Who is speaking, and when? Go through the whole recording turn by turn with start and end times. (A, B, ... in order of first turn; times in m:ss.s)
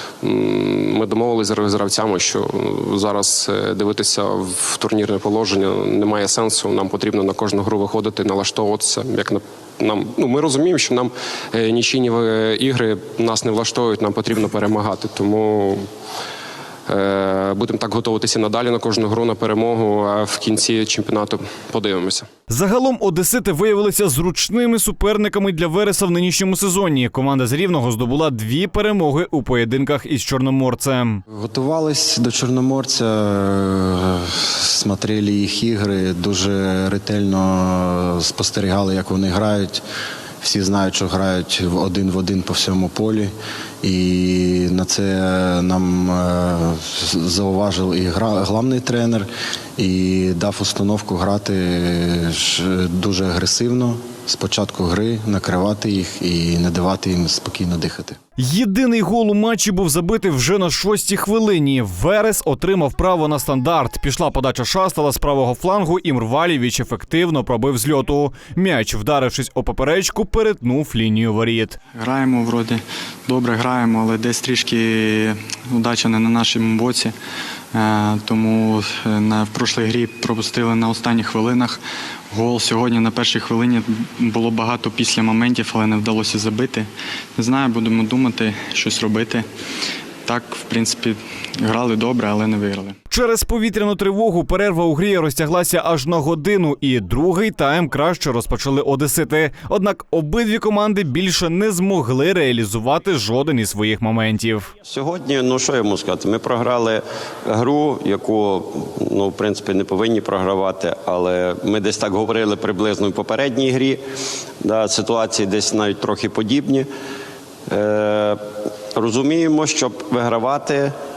0:00.2-0:15.9 A
0:16.9-0:22.3 A
0:22.5-0:31.2 B
0:31.3-0:39.8 C
0:40.4-0:43.3 C
0:43.8-0:58.2 C
0:58.4-1:11.8 B
1:12.0-1:17.1 D
1:17.7-1:21.8 D
1:22.3-1:29.5 D
1:30.3-1:33.0 D
1:33.1-1:44.7 B
1:44.9-1:54.0 E
1:54.6-1:56.9 E
1:57.7-1:58.4 E
1:59.0-2:00.9 E